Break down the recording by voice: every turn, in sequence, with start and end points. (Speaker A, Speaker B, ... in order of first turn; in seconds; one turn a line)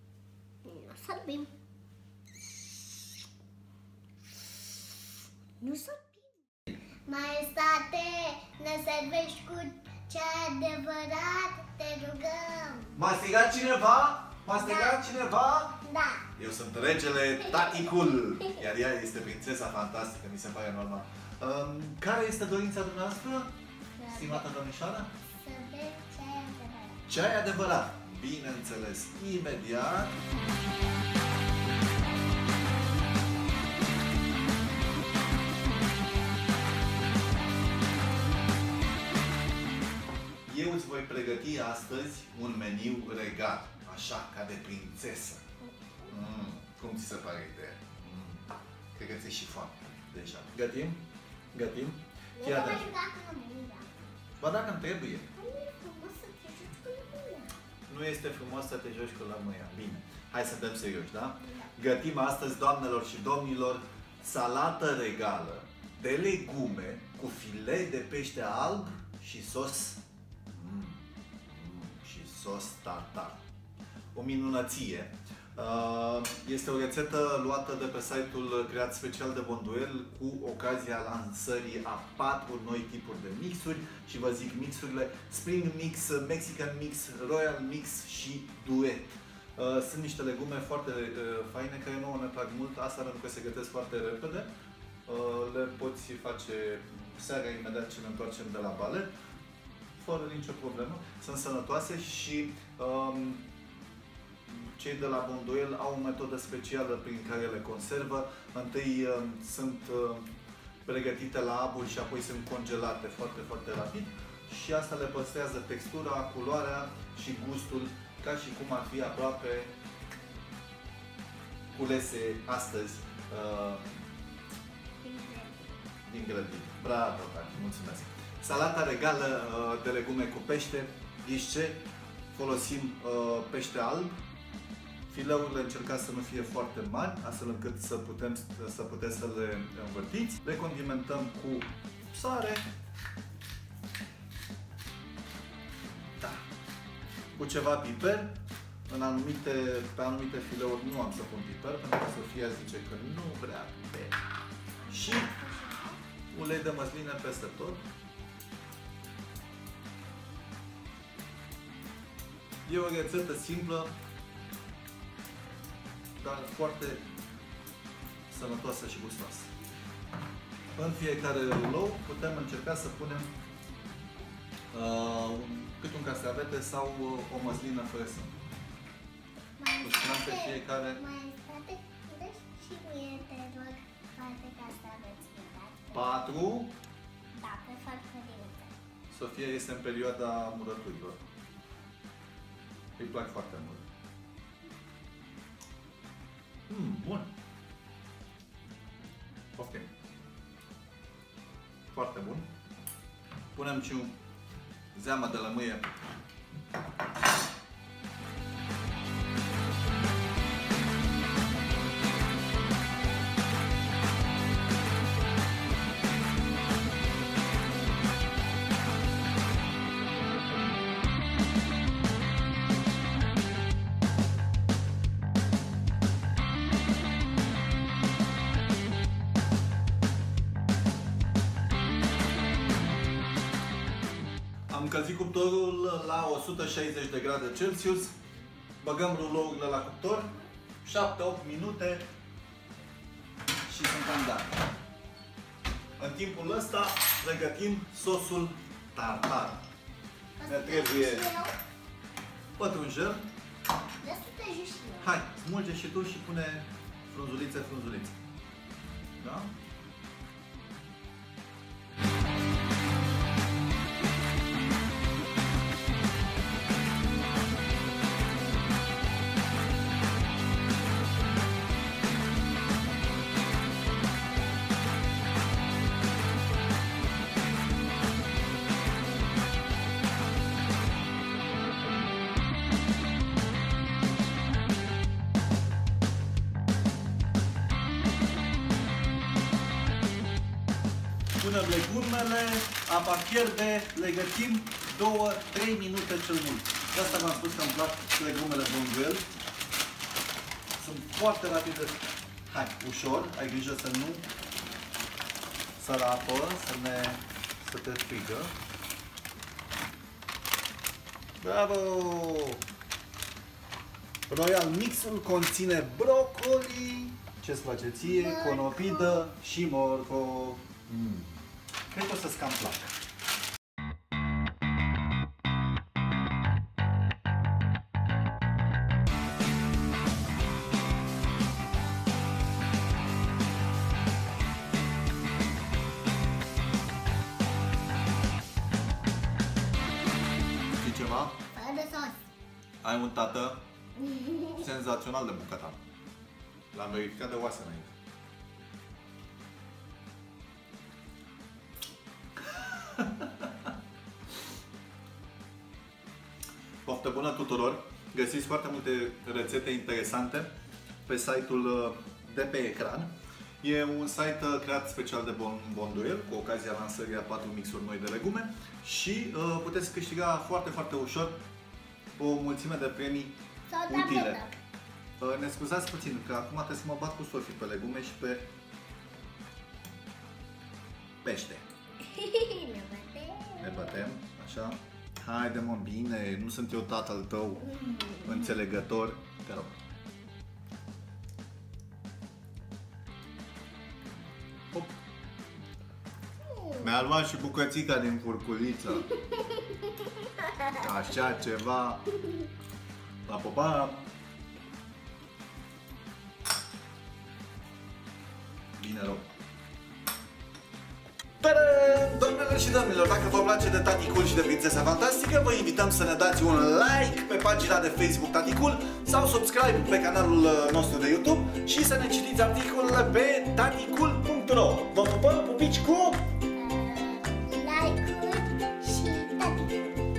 Speaker A: 0.6-1.5
Speaker A: 5.6-6.3
Speaker A: 7.1-13.0
Speaker B: 12.9-15.8
Speaker A: 14.5-15.0
Speaker A: 15.8-16.3
Speaker B: 16.4-23.5
Speaker A: 17.4-17.9
Speaker A: 24.0-24.5
Speaker B: 24.1-25.1
Speaker A: 25.2-27.0
Speaker B: 27.1-30.2
Speaker B: 40.5-45.4
Speaker A: 45.7-46.1
Speaker B: 46.1-52.9
Speaker A: 52.4-54.0
Speaker B: 54.4-55.3
Speaker A: 55.3-57.5
Speaker B: 57.9-73.4
Speaker A: 61.4-61.7
Speaker B: 74.1-94.5
Speaker B: 95.0-99.1
Speaker B: 100.0-103.5
Speaker B: 104.5-110.3
Speaker B: 110.8-119.7
Speaker B: 121.7-123.9
Speaker A: 125.0-125.8
Speaker B: 126.0-134.2
Speaker B: 135.1-142.7
Speaker B: 147.3-148.3
Speaker B: 148.9-154.2
Speaker A: 154.8-156.0
Speaker B: 154.9-155.3
Speaker B: 156.3-157.8
Speaker B: 162.6-163.9
Speaker B: 166.2-167.0
Speaker B: 168.3-169.5
Speaker B: 170.7-173.3
Speaker B: 174.7-178.3
Speaker A: 179.6-186.3
Speaker B: 179.8-181.0
Speaker B: 185.9-186.8
Speaker A: 187.3-188.7
Speaker B: 189.1-191.2
Speaker B: 193.0-193.8
Speaker B: 196.7-197.3
Speaker B: 199.5-199.9
Speaker B: 201.9-202.5
Speaker B: 203.5-204.2
Speaker B: 204.9-206.0
Speaker B: 234.7-238.1
Speaker B: 238.8-240.3
Speaker B: 240.8-242.0
Speaker B: 243.7-244.5
Speaker B: 246.0-249.6
Speaker A: 250.4-251.5
Speaker B: 250.4-251.3
Speaker B: 252.6-253.3
Speaker A: 254.0-255.2
Speaker B: 255.0-258.2
Speaker B: 259.2-259.5
Speaker B: 291.4-299.2
Speaker B: 300.8-304.2
Speaker B: 305.8-308.5
Speaker B: 311.4-312.6
Speaker B: 314.3-323.0
Speaker A: 318.0-319.2
Speaker B: 340.8-341.4
Speaker A: 341.5-342.2
Speaker B: 342.8-343.6
Speaker A: 344.0-344.7
Speaker B: 344.6-345.8
Speaker B: 346.7-347.9
Speaker B: 352.5-353.7
Speaker B: 356.8-360.5
Speaker B: 361.1-371.4
Speaker B: 372.2-373.4
Speaker A: 373.7-374.5
Speaker B: 373.9-374.4
Speaker B: 375.2-378.5
Speaker B: 381.2-381.6
Speaker A: 382.0-384.1
Speaker B: 383.6-389.7
Speaker A: 387.6-388.4
Speaker A: 396.4-396.9
Speaker B: 396.8-399.1
Speaker A: 399.1-400.8
Speaker B: 400.8-402.0
Speaker B: 403.2-404.0
Speaker B: 408.8-409.2
Speaker B: 411.4-426.2
Speaker A: 426.5-430.0